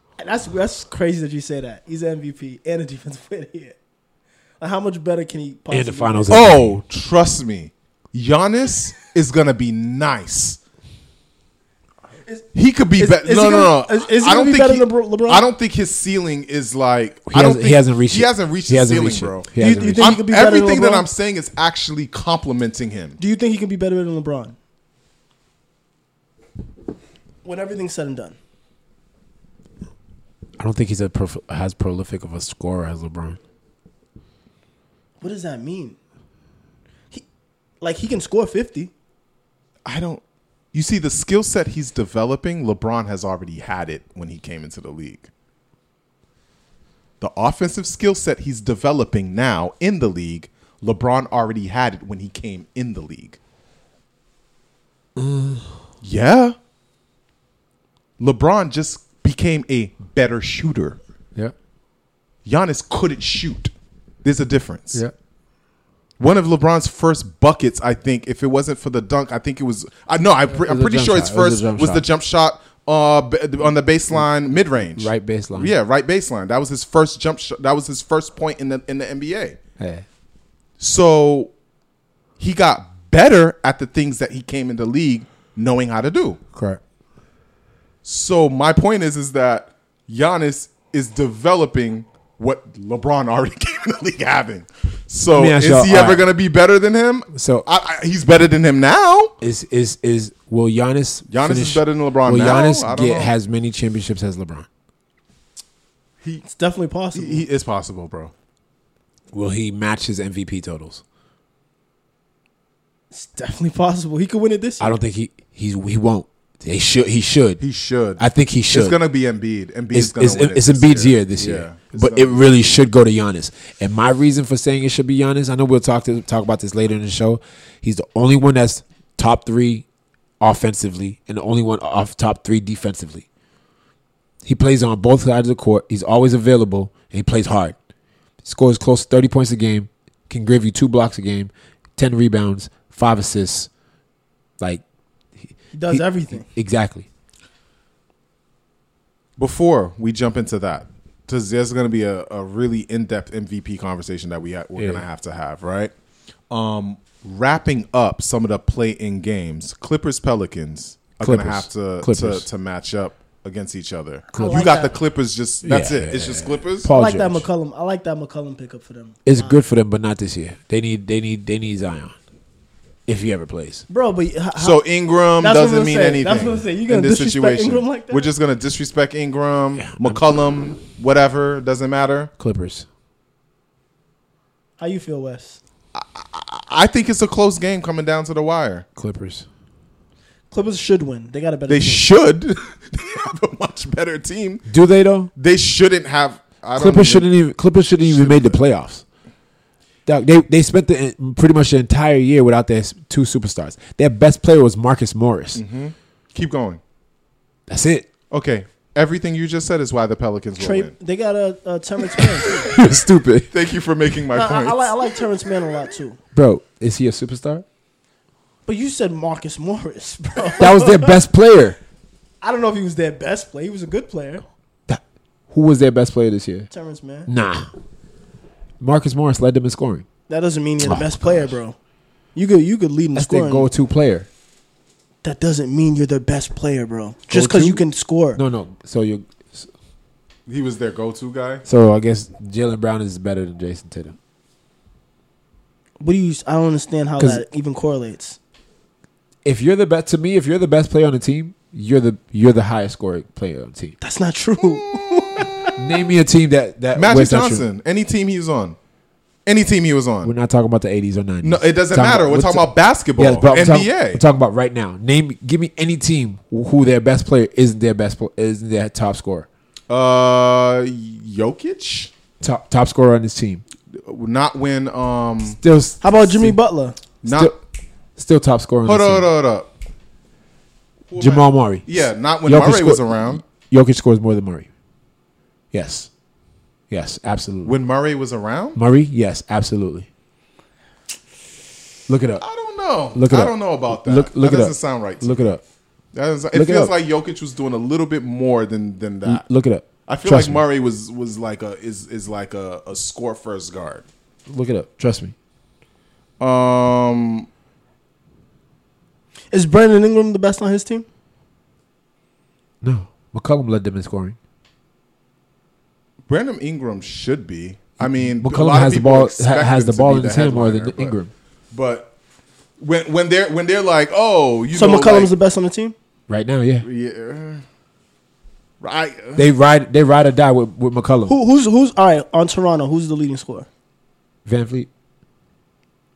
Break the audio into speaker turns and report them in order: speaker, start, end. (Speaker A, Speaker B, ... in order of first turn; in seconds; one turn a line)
Speaker A: 0.2-3.8
Speaker A: 4.6-6.4
Speaker B: 5.7-6.8
Speaker C: 6.3-10.6
Speaker A: 12.3-15.4
Speaker C: 12.5-23.2
Speaker B: 17.3-20.1
Speaker A: 19.6-21.1
Speaker A: 23.2-24.6
Speaker A: 27.4-28.4
Speaker B: 30.6-33.4
Speaker A: 35.2-36.0
Speaker A: 37.8-38.9
Speaker C: 39.9-40.2
Speaker C: 40.7-45.3
Speaker C: 47.2-53.4
Speaker B: 55.2-55.8
Speaker C: 56.0-56.6
Speaker C: 58.2-61.0
Speaker C: 62.5-63.7
Speaker C: 64.2-65.0
Speaker C: 66.2-79.6
Speaker B: 70.5-72.0
Speaker B: 75.0-75.8
Speaker B: 79.8-80.0
Speaker C: 80.8-81.5
Speaker C: 82.4-86.4
Speaker B: 86.5-86.8
Speaker C: 88.0-99.3
Speaker B: 95.3-96.3
Speaker B: 97.3-97.7
Speaker B: 99.4-104.7
Speaker C: 101.3-103.3
Speaker A: 106.4-107.5
Speaker C: 107.1-108.3
Speaker B: 109.3-111.0
Speaker A: 113.1-114.9
Speaker B: 114.8-117.6
Speaker C: 117.6-122.8
Speaker B: 118.2-119.0
Speaker B: 119.9-129.9
Speaker B: 130.4-133.3
Speaker B: 134.4-137.8
Speaker B: 138.4-143.7
Speaker A: 145.7-146.4
Speaker B: 145.9-147.1
Speaker C: 149.4-155.9
Speaker B: 154.8-155.1
Speaker C: 156.5-166.9
Speaker B: 161.2-162.5
Speaker B: 164.3-164.8
Speaker A: 164.3-164.9
Speaker B: 165.6-167.5
Speaker A: 166.9-169.6
Speaker B: 169.2-172.2
Speaker B: 173.1-173.8
Speaker A: 173.9-174.8
Speaker C: 174.6-182.3
Speaker A: 175.4-178.3
Speaker B: 179.8-180.2
Speaker B: 182.4-182.9
Speaker A: 184.8-185.6
Speaker C: 185.9-188.9
Speaker B: 189.0-189.5
Speaker A: 190.5-192.1
Speaker C: 191.7-194.7
Speaker B: 194.7-195.3
Speaker C: 195.4-197.3
Speaker B: 196.8-199.0
Speaker C: 198.0-198.6
Speaker B: 200.1-205.6
Speaker C: 205.6-206.8
Speaker B: 207.7-208.1
Speaker C: 208.3-210.9
Speaker A: 210.6-212.7
Speaker B: 212.3-213.5
Speaker C: 213.5-215.1
Speaker A: 214.3-216.2
Speaker B: 216.3-217.7
Speaker A: 218.7-221.2
Speaker B: 220.6-221.8
Speaker A: 222.4-224.4
Speaker B: 224.9-226.7
Speaker A: 226.7-227.3
Speaker B: 227.3-227.7
Speaker B: 228.8-230.1
Speaker A: 230.3-231.8
Speaker B: 230.8-231.6
Speaker A: 232.3-233.7
Speaker B: 233.2-234.3
Speaker A: 235.2-238.4
Speaker B: 237.3-237.8
Speaker B: 238.4-239.7
Speaker C: 240.5-241.6
Speaker B: 241.7-244.2
Speaker A: 246.0-248.4
Speaker B: 247.2-247.4
Speaker B: 249.4-254.0
Speaker A: 254.0-255.8
Speaker C: 254.6-255.5
Speaker B: 255.8-257.6
Speaker C: 256.9-258.8
Speaker C: 259.5-260.3
Speaker B: 260.2-269.5
Speaker C: 261.4-264.2
Speaker C: 269.9-272.1
Speaker B: 272.4-273.6
Speaker C: 273.9-275.6
Speaker B: 275.6-276.6
Speaker A: 276.0-277.0
Speaker C: 277.2-277.5
Speaker B: 277.2-277.6
Speaker B: 278.2-279.3
Speaker C: 278.9-279.7
Speaker C: 281.1-283.4
Speaker B: 281.2-281.9
Speaker B: 282.4-284.7
Speaker B: 285.7-286.1
Speaker B: 286.9-287.8
Speaker C: 287.6-288.8
Speaker B: 288.8-290.1
Speaker B: 292.1-292.5
Speaker C: 292.4-295.5
Speaker B: 293.1-295.6
Speaker C: 296.1-299.4
Speaker B: 296.5-296.9
Speaker B: 299.2-300.6
Speaker C: 300.1-304.1
Speaker B: 304.5-305.3
Speaker C: 306.4-307.5
Speaker A: 309.5-311.1
Speaker B: 312.8-314.4
Speaker C: 316.3-321.1
Speaker B: 318.0-321.3
Speaker C: 321.7-322.1
Speaker C: 322.8-325.3
Speaker A: 324.7-325.9
Speaker B: 326.3-326.9
Speaker C: 326.8-327.6
Speaker C: 328.8-329.5
Speaker B: 329.4-331.4
Speaker A: 331.3-333.7
Speaker B: 334.5-334.9